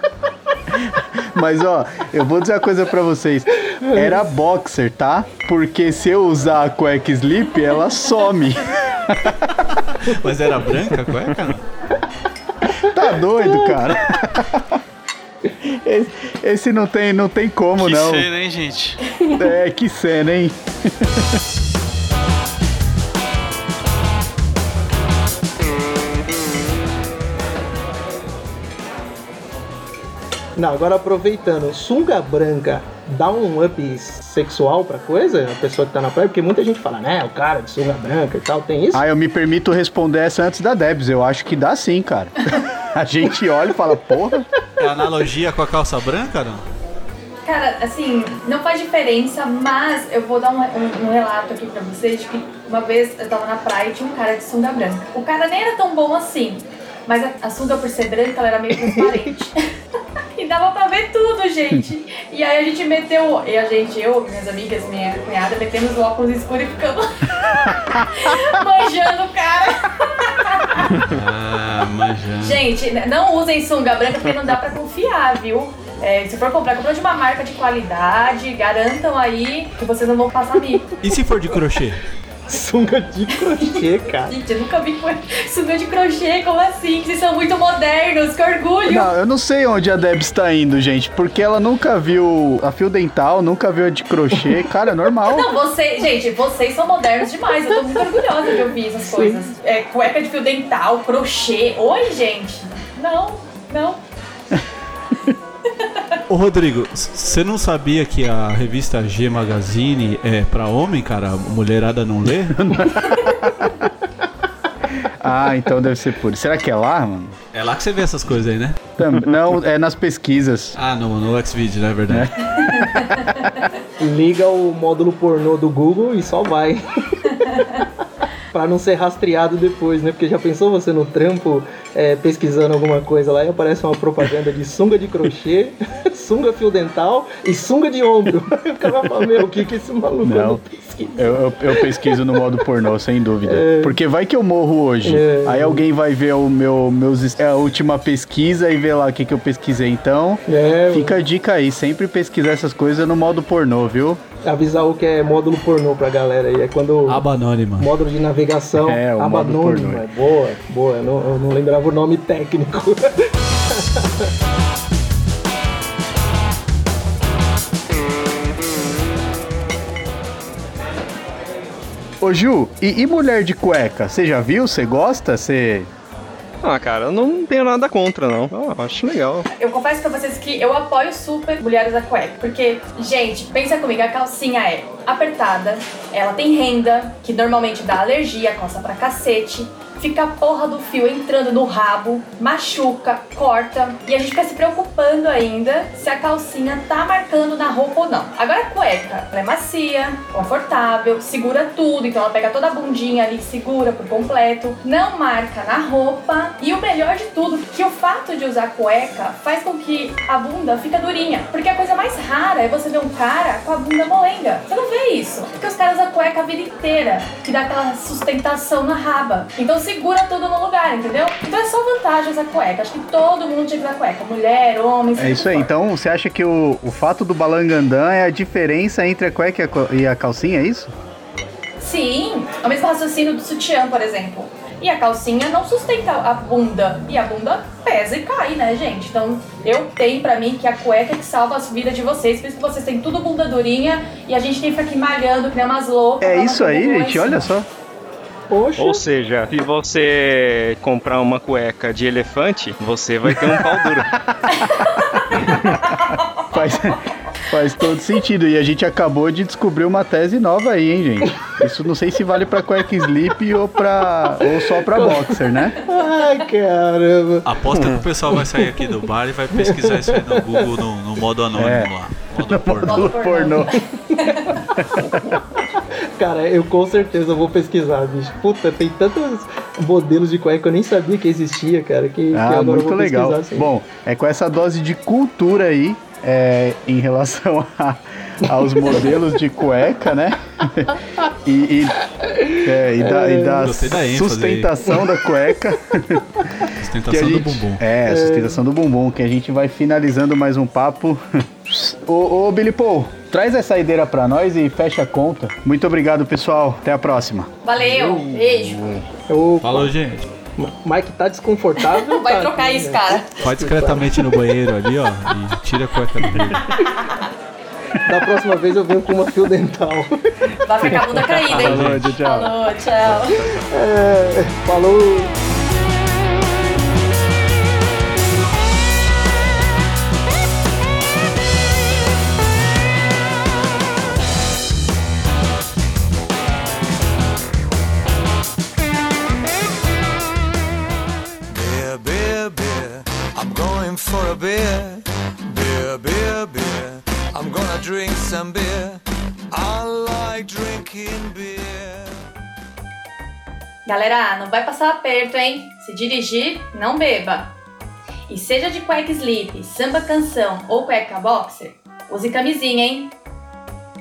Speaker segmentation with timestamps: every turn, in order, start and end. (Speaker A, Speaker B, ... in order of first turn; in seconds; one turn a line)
Speaker A: 0.9-9.5
Speaker B: 3.8-4.2
Speaker C: 9.9-11.6
Speaker A: 12.8-14.8
Speaker B: 13.4-13.9
Speaker A: 15.6-18.3
Speaker C: 17.8-19.1
Speaker A: 19.3-21.2
Speaker B: 30.6-39.0
Speaker A: 38.9-44.5
Speaker C: 44.8-46.6
Speaker D: 47.4-59.6
Speaker D: 60.4-70.9
Speaker C: 71.0-72.6
Speaker D: 72.4-80.8
Speaker C: 81.0-82.0
Speaker B: 82.5-84.3
Speaker D: 83.3-89.1
Speaker A: 88.8-95.5
Speaker D: 95.3-104.0
Speaker B: 99.0-99.5
Speaker C: 106.3-112.7
Speaker A: 112.5-113.8
Speaker A: 115.2-117.3
Speaker C: 117.5-118.9
Speaker A: 119.0-120.8
Speaker C: 120.8-122.3
Speaker D: 122.5-123.5
Speaker B: 124.0-127.8
Speaker B: 128.5-142.4
Speaker A: 140.2-140.6
Speaker A: 141.2-154.2
Speaker B: 143.4-144.0
Speaker B: 145.0-145.9
Speaker B: 150.4-151.2
Speaker B: 154.4-157.2
Speaker C: 157.1-157.9
Speaker B: 157.8-164.3
Speaker A: 158.7-160.0
Speaker A: 172.2-175.9
Speaker E: 176.6-179.5
Speaker D: 179.6-225.7
Speaker A: 225.2-230.9
Speaker D: 231.8-247.5
Speaker A: 246.2-247.7
Speaker B: 248.5-249.0
Speaker E: 248.8-254.2
Speaker A: 254.5-255.0
Speaker D: 254.5-255.2
Speaker D: 255.9-256.3
Speaker A: 256.5-265.8
Speaker B: 264.4-267.5
Speaker C: 267.4-273.1
Speaker E: 267.7-268.0
Speaker B: 268.3-268.7
Speaker B: 269.5-270.7
Speaker A: 271.6-273.8
Speaker D: 272.8-274.7
Speaker B: 274.3-274.6
Speaker A: 274.8-275.1
Speaker B: 276.2-283.7
Speaker A: 282.3-292.0
Speaker A: 292.5-307.5
Speaker B: 293.0-293.6
Speaker C: 293.6-294.7
Speaker C: 296.7-297.8
Speaker B: 298.1-298.6
Speaker D: 307.6-308.9
Speaker B: 307.8-308.2
Speaker E: 308.4-309.0
Speaker B: 309.3-309.9
Speaker C: 309.6-310.3
Speaker B: 310.6-314.2
Speaker D: 311.9-313.3
Speaker C: 313.4-316.8
Speaker D: 316.7-317.2
Speaker B: 318.0-320.1
Speaker D: 320.6-323.4
Speaker A: 320.8-322.5
Speaker C: 321.4-322.2
Speaker B: 323.5-325.3
Speaker F: 341.5-342.7
Speaker F: 343.4-345.0
Speaker F: 345.6-346.8
Speaker F: 347.3-349.0
Speaker F: 349.5-352.1
Speaker D: 353.9-357.5
Speaker D: 358.3-363.1